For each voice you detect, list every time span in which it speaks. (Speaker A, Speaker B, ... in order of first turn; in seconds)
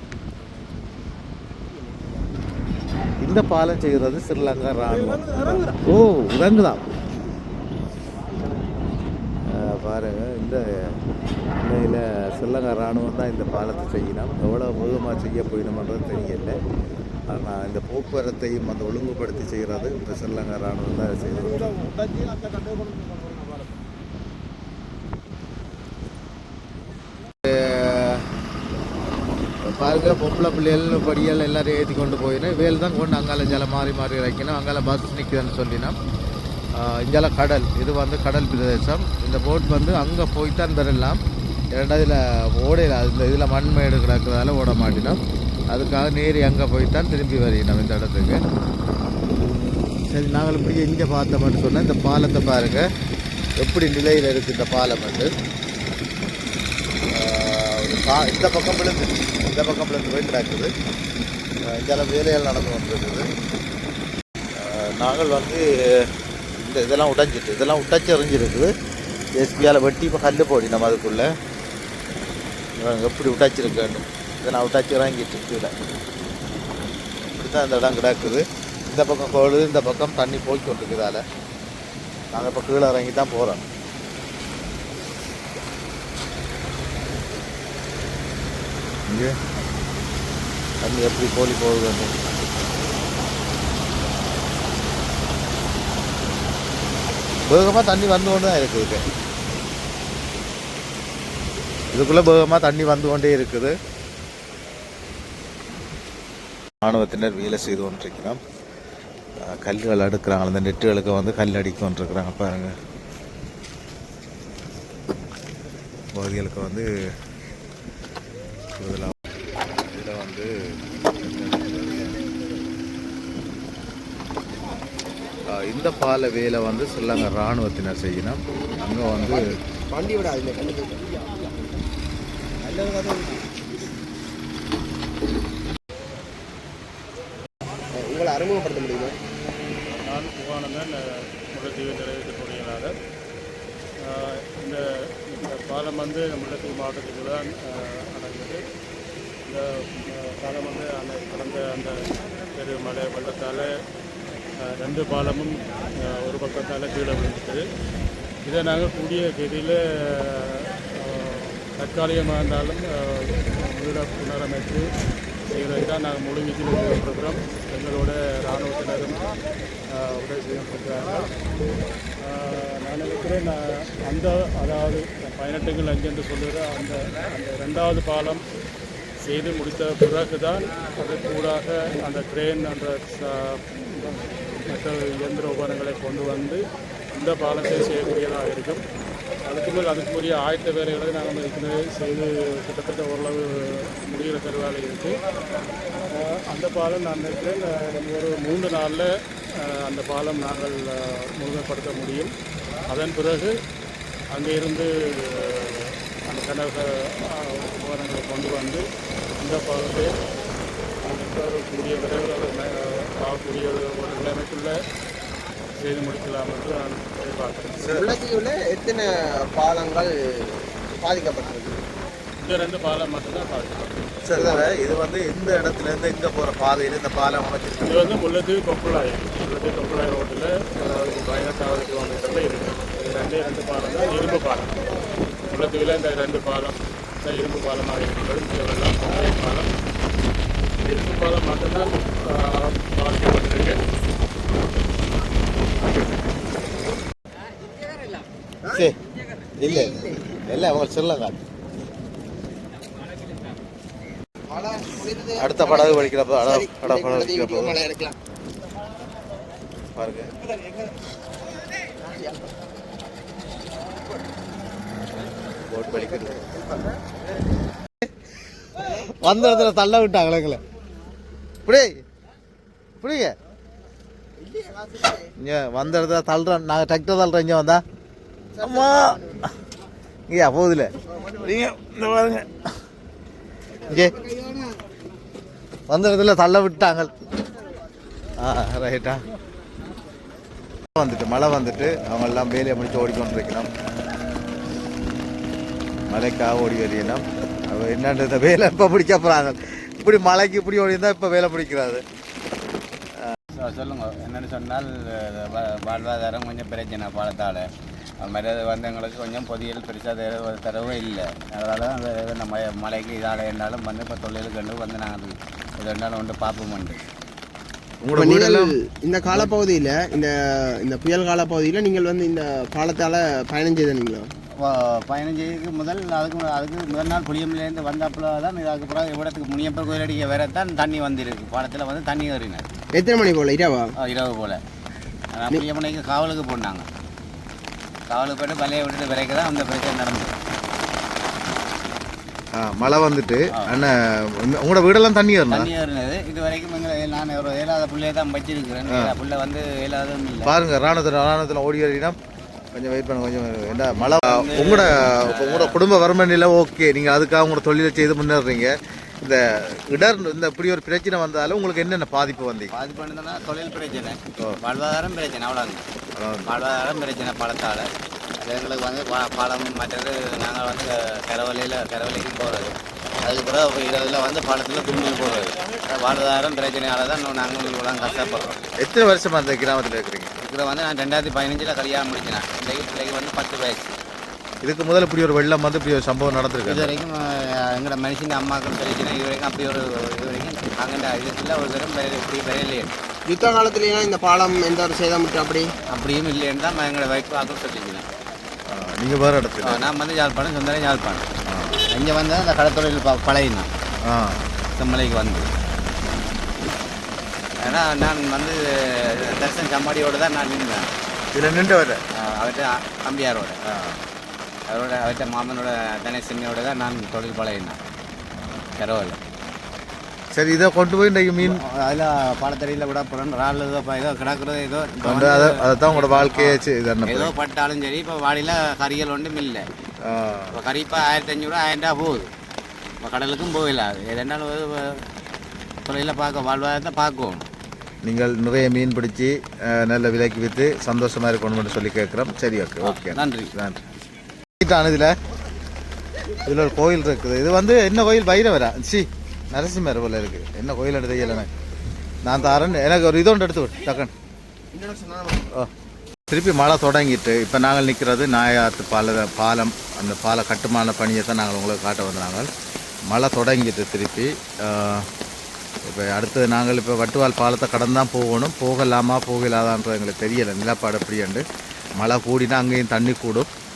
Speaker A: 3.2-6.8, 9.4-10.6, 11.6-16.6, 17.3-21.7, 27.4-28.2, 29.6-35.9, 36.7-41.2, 41.7-48.4, 50.1-52.9, 53.6-55.3, 57.1-60.7, 61.6-63.3, 64.5-66.0, 66.6-68.7, 69.3-71.3, 72.8-75.7, 77.2-81.2, 82.3-83.6, 89.1-89.3, 90.8-92.1, 97.5-99.0, 101.9-103.7, 106.8-108.4, 109.4-112.7, 116.1-116.9, 118.8-119.2, 119.8-122.2, 125.5-129.4, 217.8-218.1, 224.2-228.2, 249.6-251.4, 255.4-257.9, 259.9-260.2, 265.5-266.4, 268.8-270.6, 271.6-271.9, 273.0-273.3, 275.2-277.8, 278.6-279.5, 280.3-282.5, 283.9-284.1, 285.9-287.1, 288.4-289.2, 290.9-293.7, 296.1-302.0, 318.0-318.7, 342.5-345.7, 348.9-349.1, 350.4-352.1, 352.7-362.7, 366.1-366.5, 378.8-380.3, 384.6-387.0, 398.7-399.9, 401.4-401.8, 404.0-404.4, 411.3-412.0, 413.6-414.0, 420.3-421.6, 424.9-427.3, 430.0-430.6, 438.0-443.8, 444.6-445.1, 446.4-451.5, 452.2-454.1, 456.3-462.5, 463.1-465.1, 465.8-471.4, 472.0-473.5
Speaker B: 129.1-131.5, 137.9-139.2, 217.9-221.8, 224.3-224.7, 249.7-250.1, 254.5-258.1, 266.1-267.1, 318.1-324.3, 332.9-333.9, 393.2-395.7, 454.7-455.4
Speaker C: 132.8-133.2, 303.6-307.7, 308.2-317.0, 324.6-332.7, 334.0-334.6, 335.3-336.9, 338.1-340.3, 345.5-350.5, 354.0-355.8, 362.7-365.8, 366.4-378.6, 380.4-383.9, 386.6-392.9, 395.9-398.1, 399.6-401.2, 401.9-403.7, 404.7-405.5, 407.6-410.9, 412.2-413.6, 414.7-417.8, 418.8-419.2, 421.4-429.6, 430.5-432.3, 433.0-435.0, 435.9-437.4, 442.8-443.5
Speaker D: 139.9-142.9, 144.0-148.6, 149.4-151.9, 152.5-153.7, 154.6-157.6, 158.4-164.9, 165.5-169.2, 169.9-171.3, 172.2-178.4, 179.2-188.8, 189.4-195.2, 196.1-202.3, 202.9-203.5, 204.3-208.8, 209.4-210.1, 211.0-214.7, 215.7-217.8, 222.4-224.0, 227.8-234.8, 235.5-239.7, 240.8-243.8